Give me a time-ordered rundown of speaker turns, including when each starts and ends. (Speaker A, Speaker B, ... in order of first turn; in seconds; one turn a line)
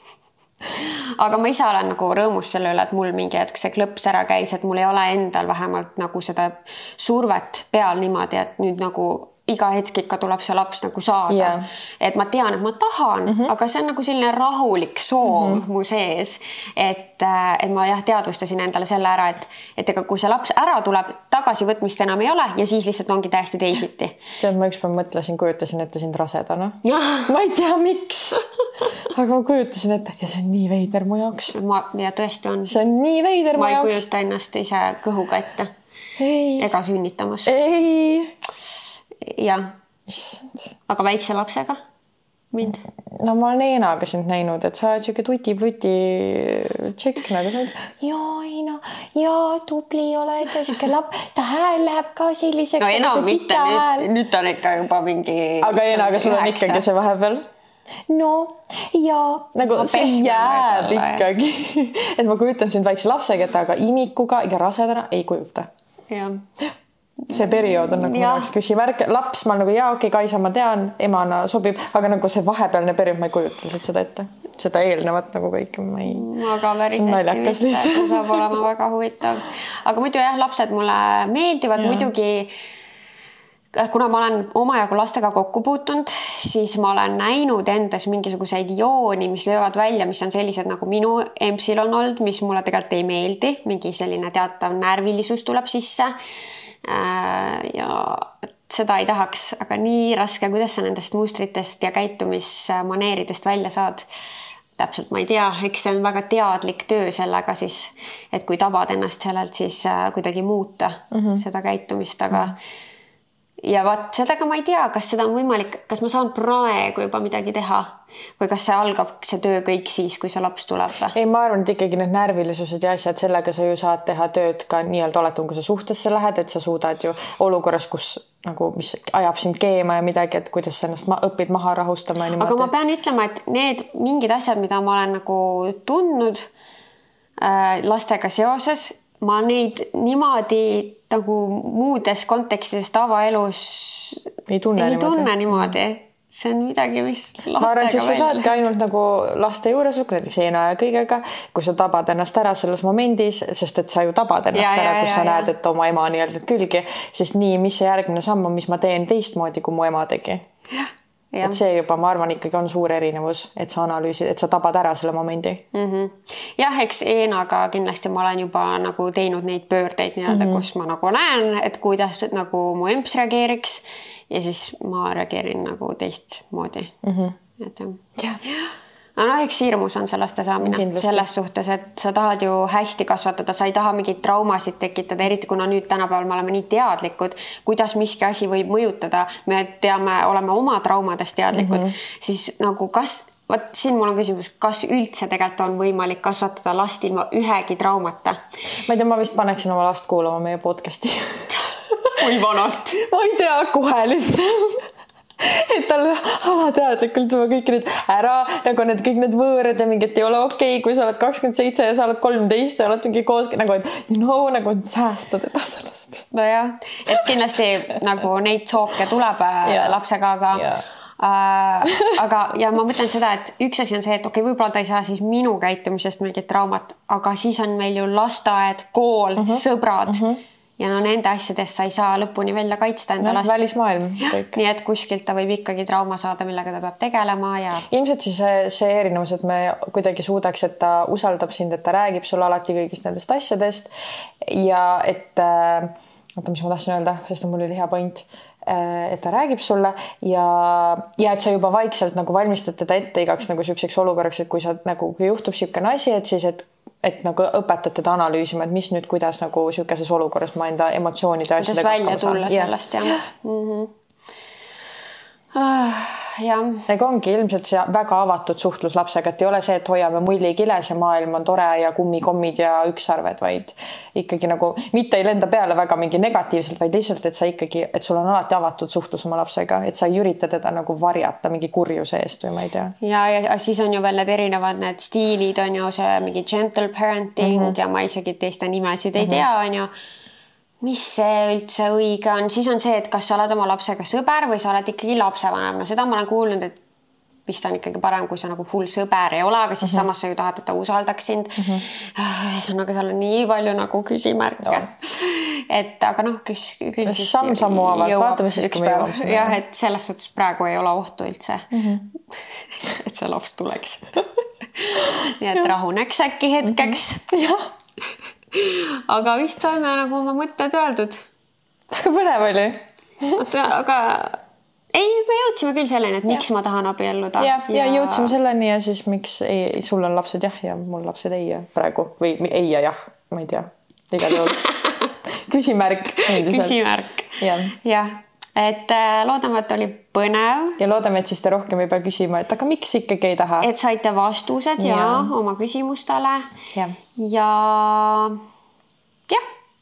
Speaker A: 0.7-24.1
Speaker B: 11.3-11.6
Speaker B: 15.2-15.6
Speaker B: 24.4-31.5
Speaker A: 26.8-27.3
Speaker A: 31.5-32.8
Speaker B: 32.6-34.0
Speaker A: 33.5-35.7
Speaker B: 36.2-36.7
Speaker A: 36.6-37.5
Speaker B: 37.5-38.4
Speaker A: 39.2-39.7
Speaker B: 40.1-40.7
Speaker A: 40.9-41.8
Speaker A: 42.5-42.8
Speaker B: 43.1-54.1
Speaker A: 52.8-56.8
Speaker B: 55.6-57.5
Speaker B: 58.1-65.7
Speaker A: 59.7-61.2
Speaker A: 66.1-66.4
Speaker A: 67.3-68.5
Speaker B: 67.3-76.3
Speaker A: 76.0-82.5
Speaker B: 76.9-78.6
Speaker B: 81.8-82.1
Speaker A: 83.7-96.1
Speaker A: 96.8-104.1
Speaker A: 104.8-112.6
Speaker B: 111.1-111.4
Speaker A: 113.6-121.2
Speaker B: 121.1-132.7
Speaker A: 132.4-136.5
Speaker A: 137.4-148.5
Speaker B: 144.5-145.8
Speaker B: 147.6-160.4
Speaker A: 154.5-155.5
Speaker A: 160.7-161.6
Speaker B: 161.4-165.6
Speaker A: 165.7-176.9
Speaker B: 170.3-170.6
Speaker B: 177.0-177.3
Speaker A: 177.6-198.4
Speaker B: 180.6-181.3
Speaker B: 191.5-191.9
Speaker B: 198.8-202.4
Speaker A: 202.2-203.0
Speaker B: 202.9-216.3
Speaker A: 216.3-230.2
Speaker B: 219.6-220.0
Speaker B: 220.5-220.8
Speaker B: 221.9-222.2
Speaker B: 229.4-230.4
Speaker A: 230.8-233.6
Speaker B: 233.2-234.6
Speaker A: 234.2-237.8
Speaker B: 237.9-243.9
Speaker B: 244.4-263.1
Speaker A: 261.6-263.9
Speaker A: 265.5-266.9
Speaker B: 266.9-282.9
Speaker A: 283.0-289.9
Speaker B: 287.4-287.8
Speaker B: 289.1-289.4
Speaker A: 290.8-296.8
Speaker A: 297.5-311.8
Speaker B: 301.6-301.8
Speaker B: 307.1-309.6
Speaker B: 311.7-312.1
Speaker A: 312.3-314.2
Speaker A: 314.8-317.3
Speaker B: 314.9-315.7
Speaker B: 316.6-317.7
Speaker A: 318.5-321.2
Speaker B: 321.9-323.4
Speaker A: 323.3-324.4
Speaker A: 324.9-328.3
Speaker B: 327.4-334.7
Speaker A: 334.3-335.1
Speaker B: 335.2-336.8
Speaker A: 336.1-340.8
Speaker B: 337.4-337.7
Speaker B: 340.8-343.7
Speaker A: 343.6-346.5
Speaker B: 344.8-345.3
Speaker A: 347.1-348.4